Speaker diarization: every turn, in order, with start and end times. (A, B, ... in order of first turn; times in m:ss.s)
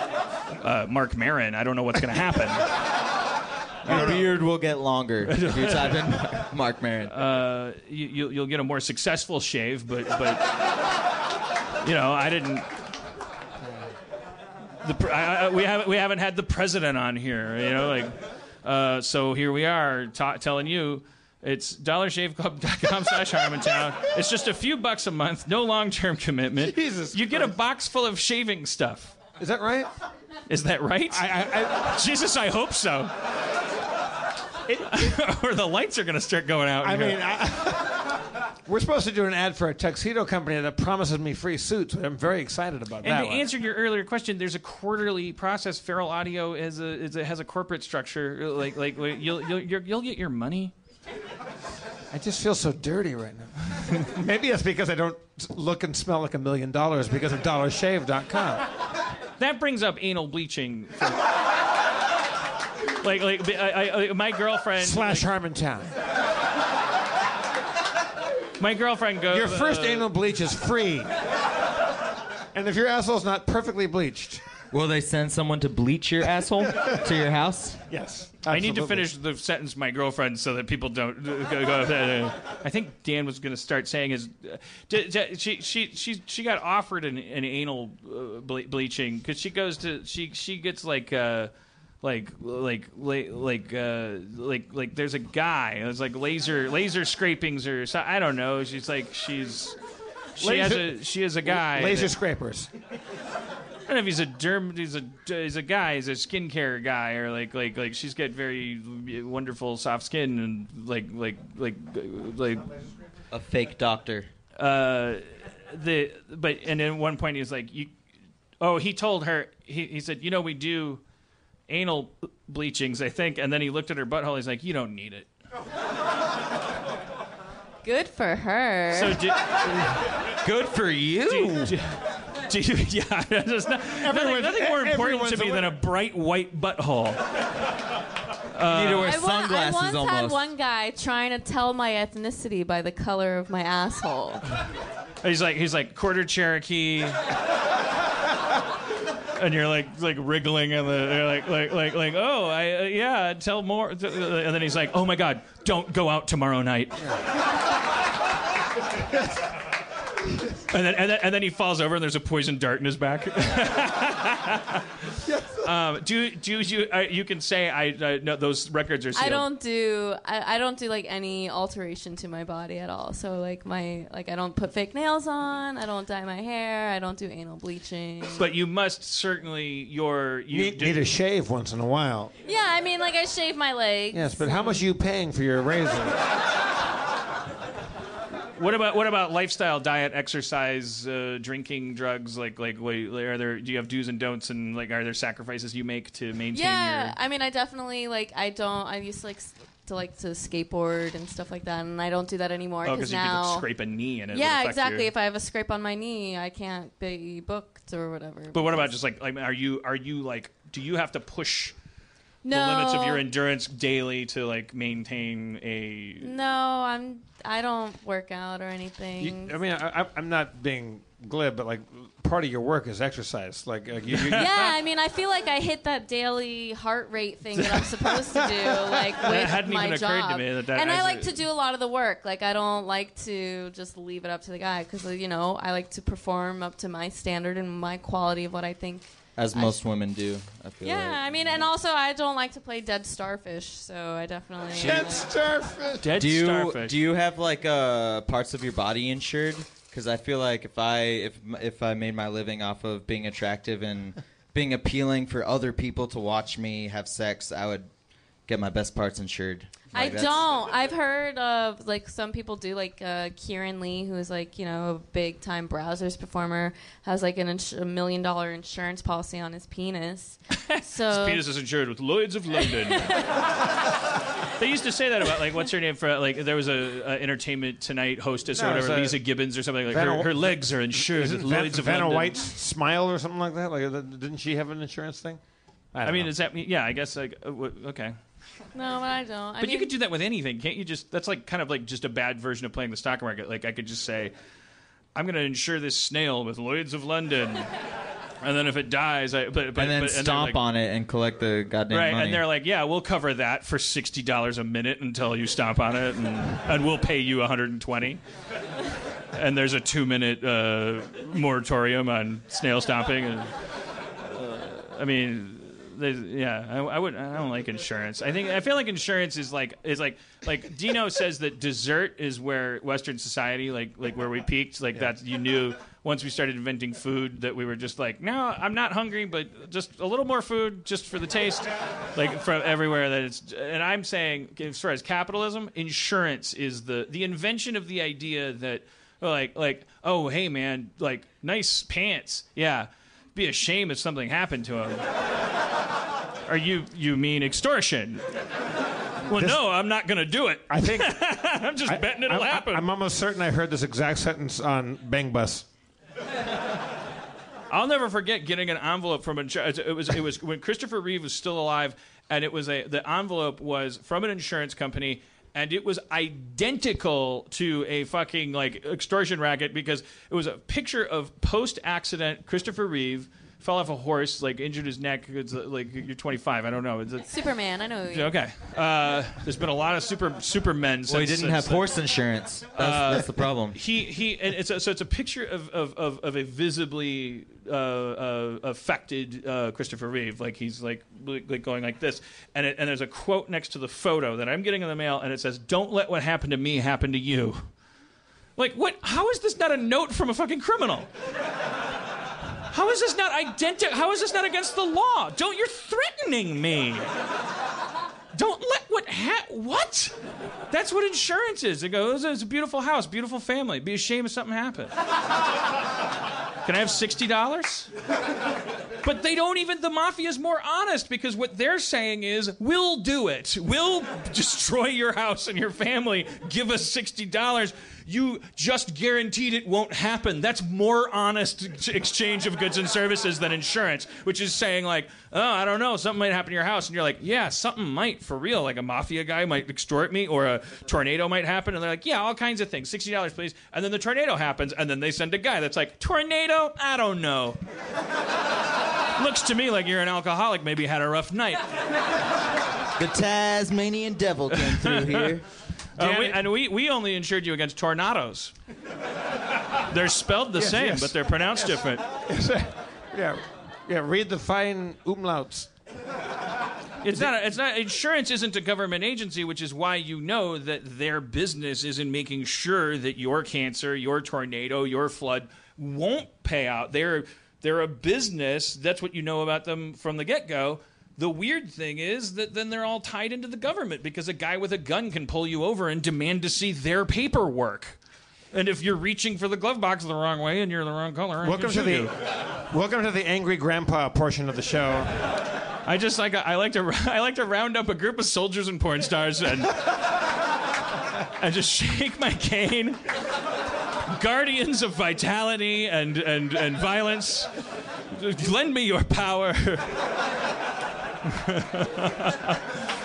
0:00.6-0:02.7 A
0:03.8-0:04.2 A
0:03.8-0:07.2 B
0:03.9-0:04.2 C
0:05.3-0:06.5 A
0:07.1-0:10.4 A
0:11.8-0:12.7 A
0:14.8-0:29.2 A
0:26.6-0:27.6 C
0:29.4-0:29.9 C
0:30.5-0:33.1 A
0:31.1-0:32.0 C
0:34.7-0:37.2 A
0:36.8-0:43.5 C
0:43.0-0:50.7 A
0:52.1-0:58.7 C
0:59.4-1:01.3 A
1:03.0-1:05.3 A
1:04.8-1:05.9 C
1:08.6-1:10.1 A
1:09.3-1:11.1 C
1:12.5-1:14.4 C
1:14.7-1:17.8 B
1:17.9-1:19.1 C
1:18.5-1:31.5 A
1:32.0-1:39.8 A
1:40.4-1:42.1 A
1:40.4-1:42.7 C
1:43.9-1:52.7 A
1:53.3-1:54.3 B
1:54.6-1:57.9 A
1:58.6-2:01.0 A
2:01.7-2:05.3 A
2:07.8-2:09.2 D
2:08.9-2:09.6 A
2:10.4-2:11.7 B
2:11.3-2:17.2 A
2:14.0-2:15.8 C
2:18.5-2:19.2 A
2:18.6-2:20.4 B
2:19.0-2:24.4 D
2:25.2-2:27.2 A
2:29.4-2:37.2 A
2:40.7-2:49.5 A
2:49.2-2:58.5 D
2:58.4-3:01.0 A
3:00.5-3:02.3 C
3:02.4-3:04.7 D
3:04.1-3:06.2 C
3:08.6-3:17.2 A
3:16.5-3:23.7 D
3:22.8-3:25.1 A
3:24.3-3:28.9 D
3:28.5-3:31.8 A
3:32.4-3:33.2 D
3:32.5-3:36.3 A
3:36.2-3:39.6 D
3:39.2-3:44.7 C
3:44.1-3:44.7 A
3:44.4-3:59.8 D
3:47.6-3:48.0 A
3:49.2-3:51.4 A
3:59.4-4:01.7 B
4:00.8-4:05.3 D
4:04.7-4:06.1 C
4:06.0-4:07.0 A
4:06.2-4:17.9 B
4:18.5-4:20.5 B
4:19.9-4:31.4 D
4:30.6-4:33.3 A
4:32.6-4:33.5 D
4:34.6-4:42.4 A
4:38.5-4:39.2 C
4:39.9-4:45.4 C
4:45.9-4:46.3 C
4:46.0-4:48.2 A
4:48.7-4:49.9 D
4:49.6-4:54.3 A
4:55.2-4:57.7 A
4:58.4-5:00.6 A
4:59.8-5:02.4 B
5:01.9-5:08.2 A
5:09.3-5:13.5 A
5:14.2-5:45.0 A
5:46.5-5:48.2 A
5:49.2-5:52.8 A
5:49.3-5:49.6 C
5:50.7-5:51.2 C
5:51.8-5:55.7 C
5:57.7-6:17.3 A
6:17.2-6:18.3 D
6:18.1-6:22.0 A
6:21.1-6:23.8 B
6:22.8-6:37.7 A
6:38.6-6:41.1 A
6:42.7-6:47.1 A
6:48.3-6:50.2 A
6:50.7-6:54.9 A
6:56.6-6:57.9 A
6:59.0-7:27.6 A
7:29.2-7:31.6 A
7:33.0-7:35.4 B
7:34.5-7:35.3 A
7:36.0-7:38.6 A
7:36.0-7:36.4 C
7:39.8-7:42.1 A
7:40.6-7:45.7 C
7:47.0-8:08.0 A
8:08.5-8:12.1 A
8:11.4-8:15.2 C
8:15.8-8:20.0 A
8:21.4-8:23.0 A
8:24.1-8:27.5 A
8:28.1-8:30.1 A
8:31.2-8:32.8 A